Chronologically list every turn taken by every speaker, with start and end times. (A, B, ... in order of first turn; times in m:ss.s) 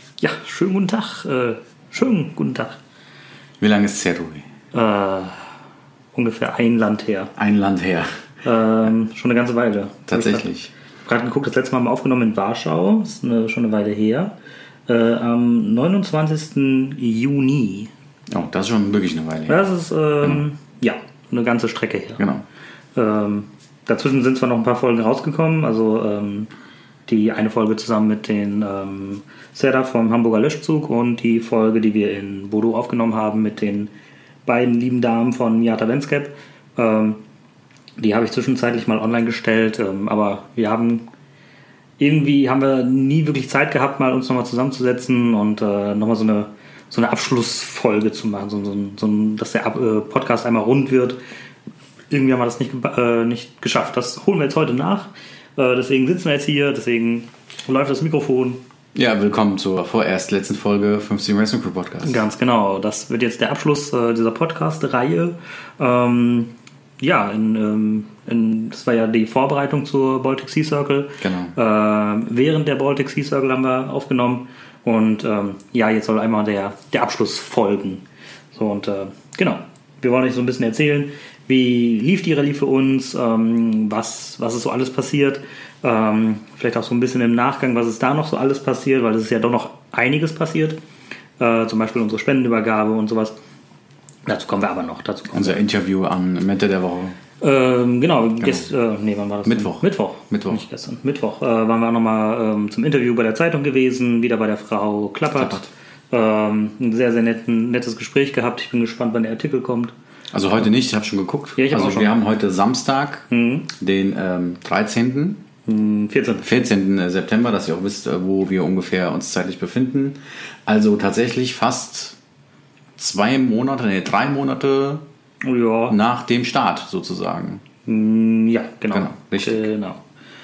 0:00.2-0:02.8 A
0:03.6-0:04.5 B
0:04.7-0:05.4 A
0:06.1-0:07.3 A
0:07.4-0:08.1 B
0:08.4-0:10.5 A
0:10.1-0:10.7 B
0:11.0-0:14.4 A
0:14.9-0:17.9 A
0:18.3-0:19.6 B
0:19.5-0:22.2 A
0:22.2-0:22.4 B
0:22.9-0:26.5 A
0:27.0-0:33.9 A
0:34.4-0:37.2 A
0:38.0-0:41.0 A
0:42.0-0:51.2 A
0:52.1-0:58.6 A
0:58.9-1:02.2 B
1:02.0-1:30.8 A
1:11.2-1:11.5 B
1:31.4-1:33.4 A
1:34.2-1:35.6 A
1:35.3-1:37.2 B
1:37.4-1:49.9 A
1:39.4-1:40.6 B
1:45.3-1:45.7 B
1:50.3-1:55.4 B
1:51.6-1:52.2 A
1:53.3-1:53.7 A
1:55.6-1:56.7 A
1:56.4-2:02.2 B
2:03.0-2:05.0 B
2:05.4-2:06.0 A
2:05.9-2:07.6 B
2:07.8-2:10.0 A
2:08.9-2:09.7 B